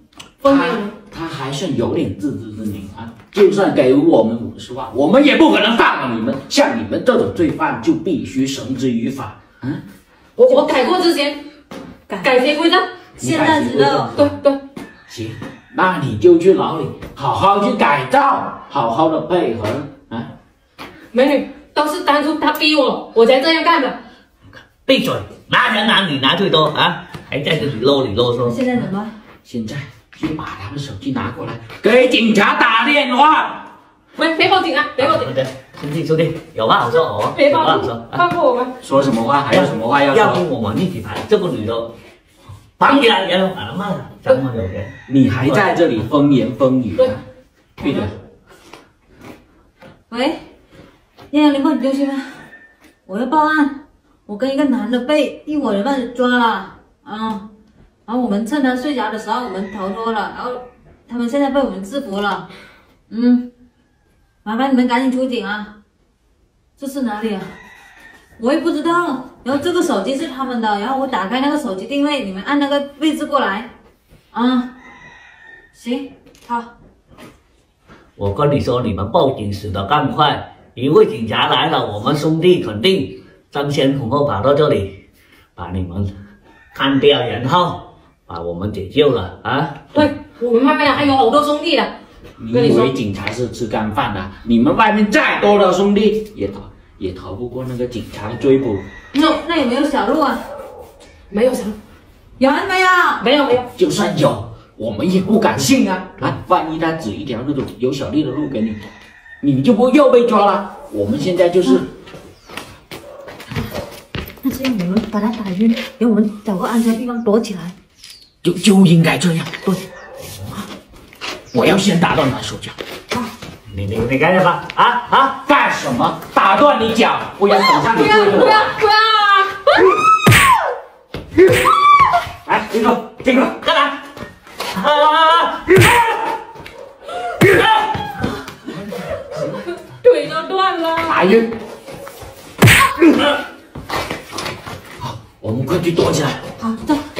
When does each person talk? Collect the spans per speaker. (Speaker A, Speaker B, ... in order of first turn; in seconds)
Speaker A: 0.4-0.9, 10.4-11.4, 12.2-12.9, 14.0-14.6, 21.1-24.0, 34.1-35.3, 37.3-38.7, 89.9-91.9, 92.5-92.9, 101.3-101.8, 103.2-103.7, 127.5-130.0, 140.0-141.3
Speaker B: 0.4-9.8, 13.2-14.4, 15.1-20.3, 29.4-33.7, 38.8-40.4, 45.1-47.2, 47.8-48.1, 92.4-98.8, 103.7-108.8, 109.4-111.9, 118.4-119.8, 121.5-122.8, 125.4-128.8, 132.4-133.8, 139.1-139.7, 141.0-141.5, 145.0-146.4
Speaker C: 13.2-14.1, 28.4-29.1, 50.1-50.4, 51.3-52.4, 53.0-57.5, 58.1-62.5, 63.1-63.5, 64.4-65.7, 66.8-67.5, 68.4-73.7, 74.3-74.7, 75.7-76.7, 99.1-100.4, 102.4-103.2, 114.4-117.7, 146.6-147.0
Speaker D: 24.9-28.7, 35.0-38.2, 39.5-41.9, 42.8-45.7, 78.2-84.9, 85.5-86.1, 86.7-90.0, 123.7-125.4, 134.7-136.0